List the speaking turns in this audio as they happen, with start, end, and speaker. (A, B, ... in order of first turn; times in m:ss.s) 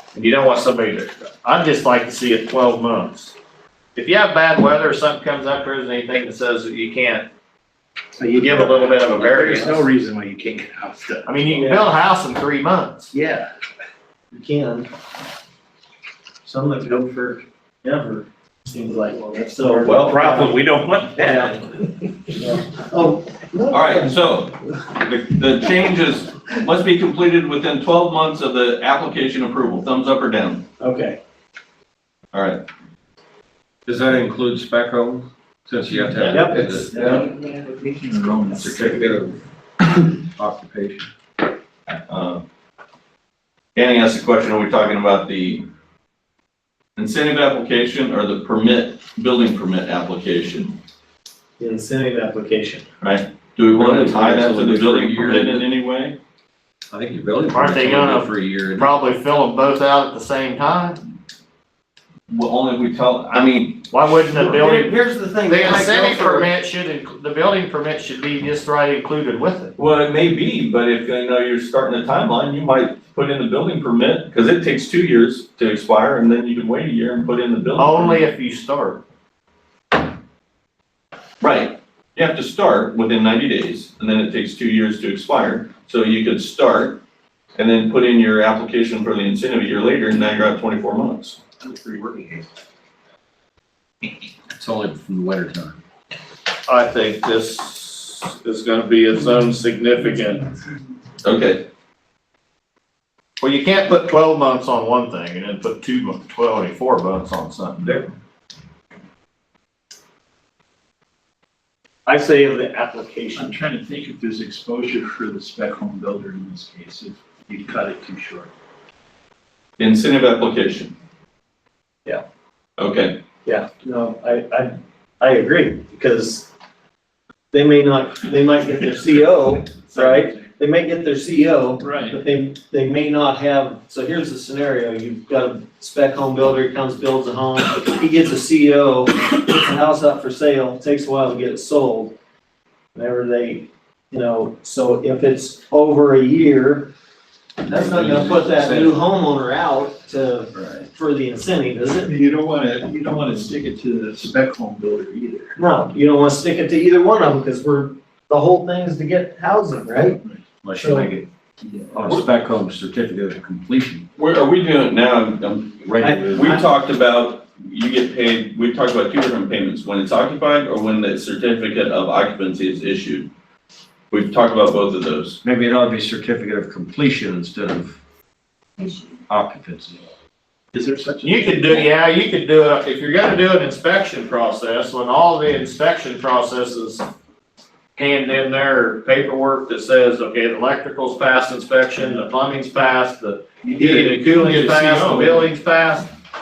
0:00.1-0:03.3 A
0:03.9-0:07.3 A
0:08.2-0:11.7 B
0:08.4-0:09.8 A
0:11.2-0:13.1 A
0:13.1-0:13.5 B
0:14.3-0:14.9 C
0:16.4-0:20.6 C
0:19.6-0:21.5 B
0:21.2-0:21.6 C
0:22.3-0:24.3 C
0:23.7-0:30.6 D
0:30.8-0:31.2 C
0:32.3-0:32.6 D
0:33.9-0:37.3 E
0:35.9-0:39.1 B
0:36.3-0:36.9 C
0:38.5-0:41.1 E
0:42.1-0:42.4 D
0:43.7-0:45.6 D
0:47.0-0:50.8 D
0:51.6-0:52.9 C
0:53.0-0:56.2 D
0:53.7-0:55.6 E
0:56.9-0:58.9 E
0:57.5-1:01.0 A
1:02.3-1:04.4 D
1:03.9-1:09.7 A
1:04.3-1:06.5 C
1:09.8-1:18.3 D
1:17.8-1:19.0 A
1:21.4-1:27.0 D
1:27.6-1:31.4 D
1:31.6-1:32.4 B
1:34.5-1:35.8 E
1:36.7-1:40.5 A
1:41.2-1:41.6 D
1:43.4-1:48.1 A
1:52.0-1:53.6 C
1:53.3-1:58.5 B
1:59.8-2:01.0 D
2:02.8-2:03.2 D
2:03.4-2:06.5 C
2:07.5-2:22.1 C
2:09.9-2:10.4 B
2:11.8-2:12.2 B
2:23.0-2:26.9 C
2:27.6-2:29.0 E
2:27.6-2:32.1 C
2:32.1-2:35.6 B
2:35.6-2:40.2 C
2:40.6-2:41.3 E
2:40.8-2:41.1 C
2:41.9-2:44.1 E
2:44.2-2:53.3 D
2:45.9-2:46.4 E
2:46.0-2:46.7 C
2:54.1-2:55.4 D
2:55.4-2:58.0 E
2:59.3-3:00.0 E
3:00.7-3:01.9 B
3:01.2-3:07.0 A
3:08.0-3:16.1 A
3:13.6-3:15.5 B